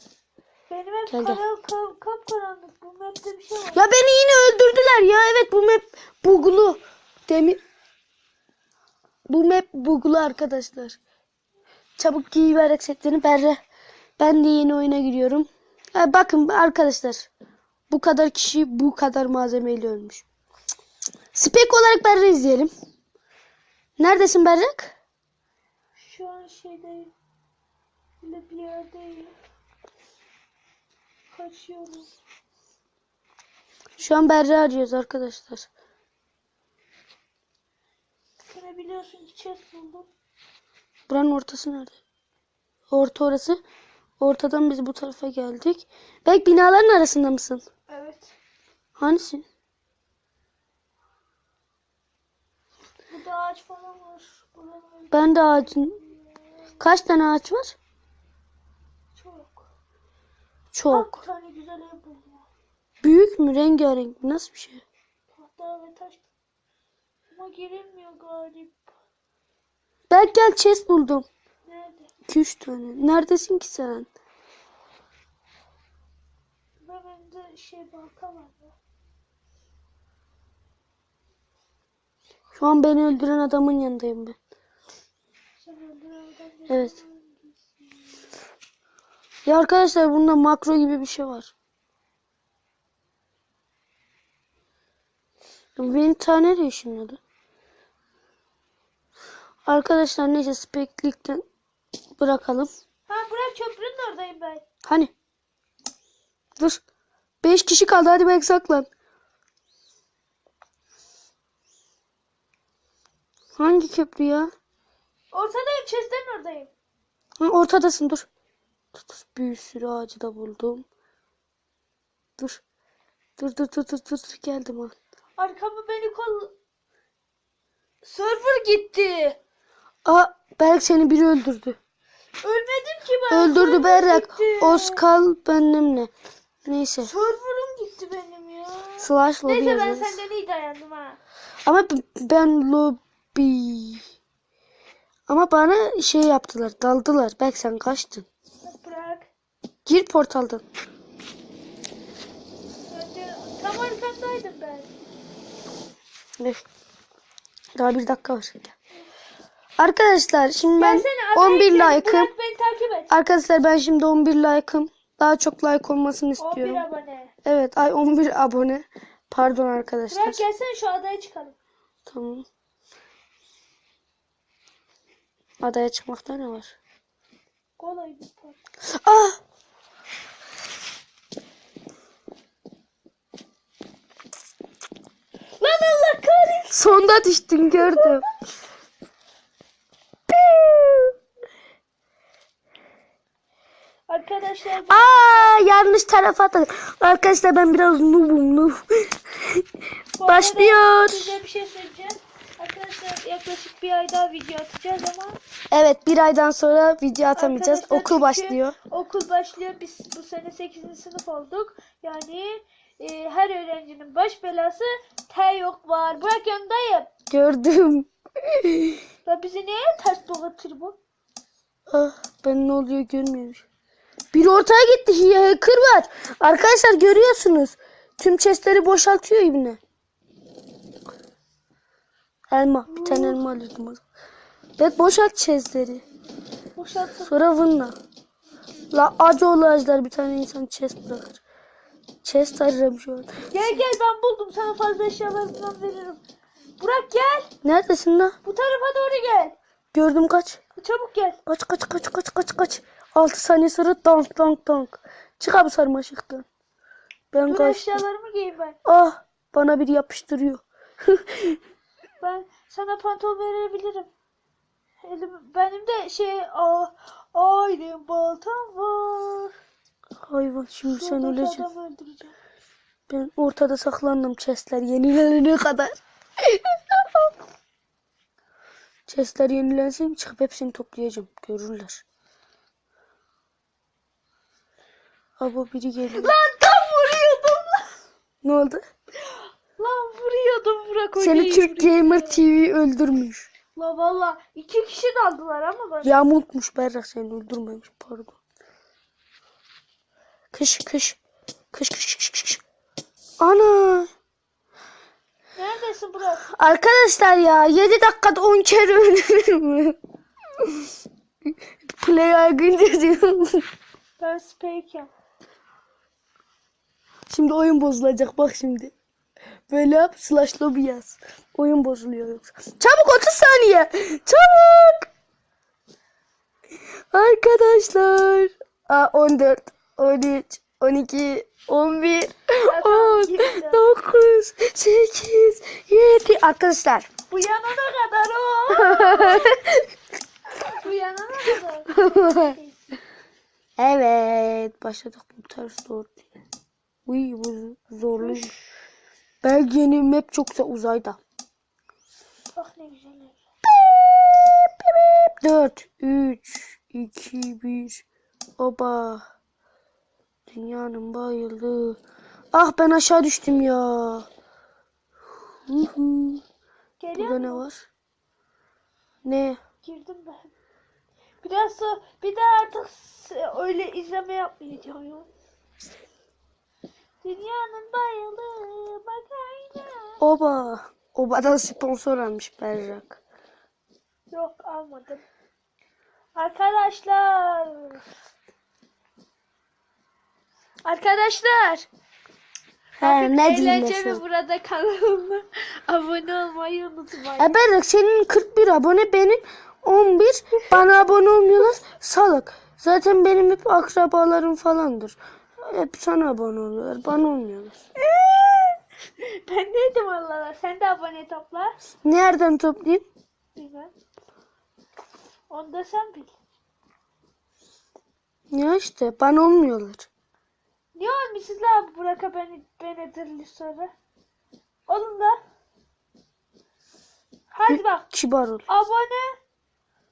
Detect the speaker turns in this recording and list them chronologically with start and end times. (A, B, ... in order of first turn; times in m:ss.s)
0:00.7-0:03.8 A
0:01.1-0:01.4 B
0:03.7-0:07.6 B
0:09.3-0:11.0 B
0:12.0-0:13.6 B
0:14.2-0:17.3 B
0:17.9-0:20.2 B
0:21.3-0:22.7 B
0:24.0-0:24.9 B
0:26.0-0:27.1 A
0:28.2-0:29.3 A
0:31.3-0:32.1 A
0:34.0-0:35.7 B
0:38.5-0:40.1 A
0:41.1-0:42.0 B
0:42.9-0:43.6 B
0:44.2-0:47.6 B
0:47.9-0:48.3 A
0:49.0-0:49.4 B
0:53.1-0:56.6 A
0:55.1-0:56.0 B
0:56.8-0:57.7 B
0:59.1-0:59.6 A
1:00.7-1:01.2 B
1:00.9-1:02.5 A
1:03.0-1:04.8 B
1:05.4-1:06.2 A
1:07.3-1:08.9 A
1:10.1-1:11.2 B
1:11.6-1:12.1 A
1:12.3-1:14.1 B
1:16.8-1:18.7 A
1:22.5-1:24.4 B
1:25.6-1:27.9 A
1:26.7-1:26.9 B
1:29.4-1:31.5 B
1:35.8-1:37.2 B
1:39.7-1:41.4 B
1:42.2-1:42.7 B
1:43.1-1:44.6 A
1:44.8-1:45.1 B
1:47.4-1:48.9 B
1:53.6-1:54.5 B
1:55.3-1:56.7 A
1:57.4-1:58.3 B
1:58.9-2:00.8 B
2:03.4-2:04.9 B
2:05.4-2:06.5 A
2:08.0-2:09.4 A
2:10.0-2:11.8 B
2:12.4-2:15.0 A
2:13.3-2:16.1 B
2:16.6-2:17.1 B
2:17.0-2:21.2 A
2:19.0-2:20.2 B
2:21.6-2:24.0 B
2:25.3-2:28.2 B
2:28.6-2:29.3 A
2:29.8-2:30.6 B
2:32.9-2:34.9 A
2:37.8-2:38.7 B
2:39.8-2:42.3 B
2:40.8-2:43.1 A
2:43.1-2:46.8 B
2:46.4-2:47.3 A
2:47.4-2:50.4 B
2:50.1-2:51.5 A
2:52.0-2:52.4 B
2:55.6-2:56.7 B
2:57.8-2:58.6 A
2:58.9-2:59.4 B
3:05.6-3:06.7 A
3:06.7-3:08.2 B
3:07.8-3:08.2 A
3:10.3-3:11.1 B
3:14.1-3:15.5 A
3:14.9-3:19.6 B
3:20.2-3:25.4 A
3:20.2-3:21.4 B
3:25.7-3:28.7 B
3:27.3-3:37.1 A
3:37.3-3:39.0 B
3:39.2-3:41.0 A
3:41.9-3:43.6 B
3:44.3-3:49.8 B
3:52.5-3:54.0 B
3:52.9-3:53.4 A
3:54.8-3:56.0 B
3:56.8-3:57.3 A
3:57.2-3:58.0 B
3:58.9-4:01.4 B
4:02.2-4:03.3 B
4:03.5-4:06.2 A
4:06.8-4:07.5 A
4:07.6-4:08.4 B
4:08.4-4:09.6 A
4:09.9-4:10.6 B
4:10.8-4:11.4 A
4:11.5-4:16.4 B
4:17.3-4:18.0 B
4:17.4-4:18.8 A
4:18.8-4:21.6 B
4:22.2-4:24.1 A
4:25.0-4:29.5 A
4:30.2-4:31.6 B
4:30.9-4:32.3 A
4:33.1-4:37.3 B
4:39.1-4:42.0 B
4:45.4-4:46.3 B
4:46.1-4:47.9 A
4:48.4-4:48.8 B
4:49.2-4:52.4 A
4:51.2-4:53.5 B
4:53.7-4:56.2 A
4:56.0-4:58.4 B
5:00.5-5:01.2 B
5:01.7-5:02.6 B
5:03.4-5:04.1 B
5:05.6-5:06.4 A
5:06.5-5:10.0 B
5:10.6-5:10.9 B
5:12.0-5:13.6 B
5:14.2-5:15.1 A
5:17.3-5:18.9 B
5:19.7-5:25.1 B
5:27.1-5:37.1 B
5:32.6-5:33.8 A
5:37.3-5:39.6 A
5:38.7-5:39.9 B
5:40.5-5:42.8 A
5:41.9-5:42.6 B
5:43.8-5:46.2 B
5:47.0-5:48.5 B
5:48.1-5:48.5 A
5:49.4-5:51.2 B
5:52.6-5:53.4 A
5:53.7-5:58.0 B
5:58.6-5:59.2 B
6:00.5-6:02.0 B
6:02.5-6:04.3 B
6:05.7-6:06.4 B
6:07.0-6:07.6 A
6:07.2-6:07.9 B
6:09.2-6:09.6 B
6:09.8-6:10.5 A
6:11.4-6:15.3 A
6:17.2-6:20.2 A
6:20.2-6:23.2 B
6:24.3-6:25.2 A
6:26.3-6:28.0 A
6:30.8-6:31.9 A
6:33.0-6:34.2 B
6:33.0-6:37.6 A
6:37.4-6:47.8 B
6:48.0-6:51.8 A
6:52.0-6:53.0 B
6:53.5-6:53.9 A
6:55.5-6:56.3 A
6:58.5-7:00.1 B
7:00.9-7:03.9 A
7:04.9-7:05.4 A
7:07.5-7:08.1 A
7:07.7-7:08.6 B
7:08.7-7:09.3 A